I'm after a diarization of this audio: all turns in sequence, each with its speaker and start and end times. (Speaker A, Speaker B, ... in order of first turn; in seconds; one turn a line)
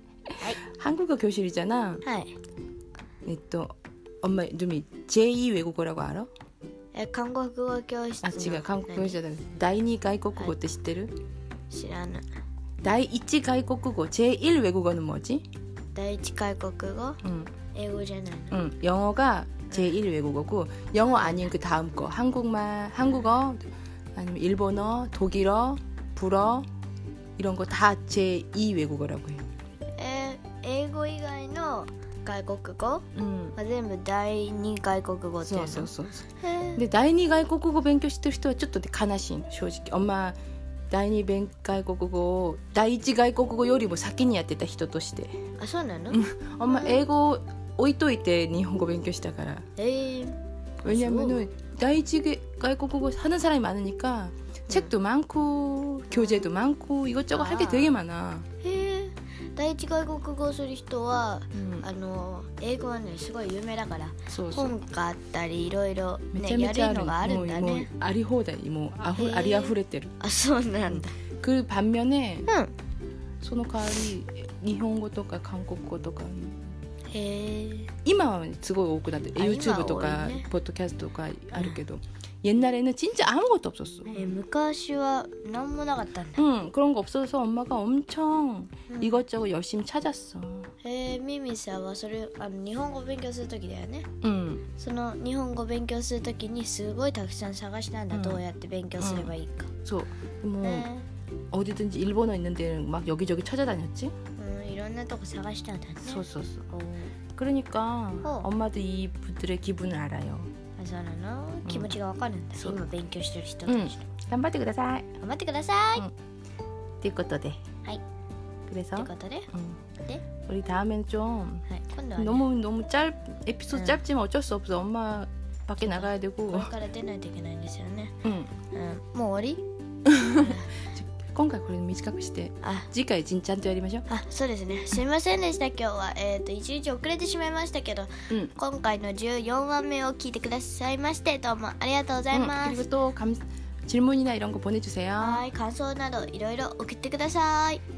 Speaker A: 0.7-2.0
Speaker B: 2.0-2.3
Speaker A: 3.2-6.3
Speaker B: 6.9-9.2
Speaker A: 8.2-11.2
Speaker B: 11.7-12.2
Speaker A: 12.8-15.4
Speaker B: 15.9-17.2
Speaker A: 17.2-17.5
Speaker B: 17.7-18.6
Speaker A: 18.5-23.6
Speaker B: 21.0-21.5
Speaker A: 24.1-26.7
Speaker A: 27.4-29.5
Speaker B: 30.0-36.8
Speaker A: 33.1-33.5
Speaker A: 35.4-36.2
Speaker A: 36.8-40.4
Speaker A: 40.9-45.3
Speaker B: 45.6-47.0
Speaker A: 46.1-49.6
Speaker B: 49.8-51.5
Speaker A: 50.8-58.5
Speaker B: 56.1-56.5
Speaker B: 57.3-58.0
Speaker B: 58.6-67.9
Speaker A: 61.5-61.9
Speaker A: 64.3-64.8
Speaker A: 66.3-70.1
Speaker B: 69.1-71.1
Speaker A: 70.9-72.5
Speaker B: 72.5-72.7
Speaker A: 73.4-76.7
Speaker B: 77.1-77.9
Speaker A: 78.0-84.3
Speaker B: 79.4-80.5
Speaker B: 81.5-81.8
Speaker B: 84.1-86.4
Speaker A: 86.4-90.7
Speaker B: 88.9-89.2
Speaker B: 90.8-94.1
Speaker A: 94.2-94.6
Speaker B: 94.8-99.7
Speaker A: 98.1-98.4
Speaker A: 99.0-99.3
Speaker A: 99.8-100.9
Speaker B: 100.6-101.1
Speaker A: 101.5-104.1
Speaker B: 104.4-107.1
Speaker A: 106.1-106.7
Speaker A: 107.3-110.5
Speaker B: 110.8-114.0
Speaker A: 111.7-111.9
Speaker A: 113.7-115.1
Speaker B: 115.2-116.1
Speaker A: 117.0-117.6
Speaker A: 118.7-119.8
Speaker B: 119.0-119.5
Speaker A: 120.5-121.7
Speaker B: 121.7-122.5
Speaker A: 122.2-126.7
Speaker B: 123.7-124.0
Speaker B: 125.8-128.2
Speaker A: 128.2-128.5
Speaker B: 128.7-130.7
Speaker A: 130.1-134.1
Speaker B: 132.6-132.9
Speaker B: 134.1-142.9
Speaker A: 138.3-138.5
Speaker A: 142.3-145.4
Speaker B: 145.2-147.8